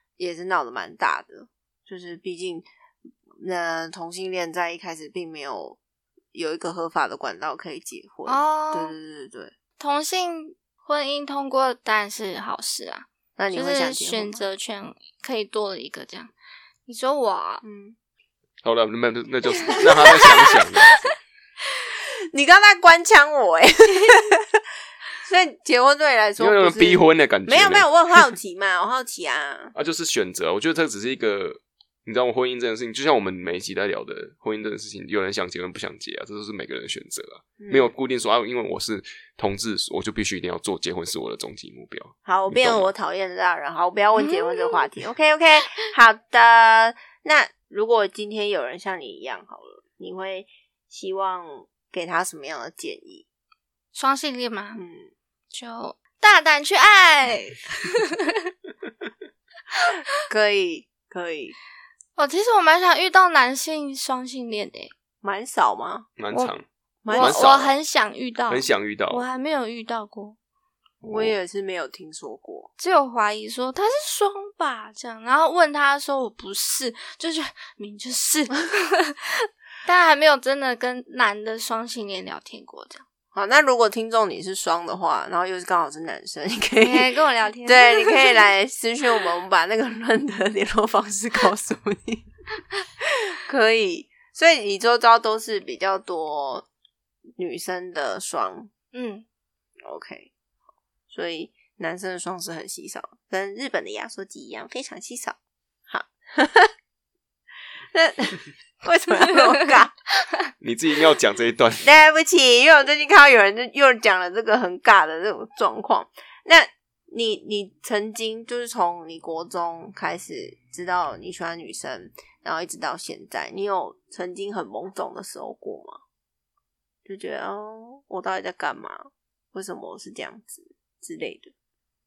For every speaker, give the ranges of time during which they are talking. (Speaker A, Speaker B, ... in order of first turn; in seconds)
Speaker A: 0.2-2.7, 3.4-5.8, 6.3-9.5, 13.4-14.4, 17.6-18.0, 22.3-24.6, 25.2-29.7, 37.6-37.9, 42.2-53.3, 54.8-55.1, 60.3-61.6, 65.2-66.1, 67.0-67.5, 71.0-72.7, 83.3-87.1, 87.7-92.3, 93.0-96.7, 97.4-98.7, 99.8-100.3, 101.1-105.4, 105.9-106.7, 107.9-109.9, 111.8-126.0, 127.1-131.5
Speaker B: 8.3-8.9, 9.8-16.3, 16.9-17.6, 19.7-21.1, 44.2-44.8, 53.9-54.8, 55.5-58.3, 62.2-64.9, 67.1-70.4, 72.8-83.0, 86.8-88.4, 98.9-99.2
Speaker C: 18.6-21.1, 26.4-28.3, 29.8-42.9, 66.2-66.6, 67.2-67.8, 68.5-69.2, 71.0-71.3, 110.6-111.9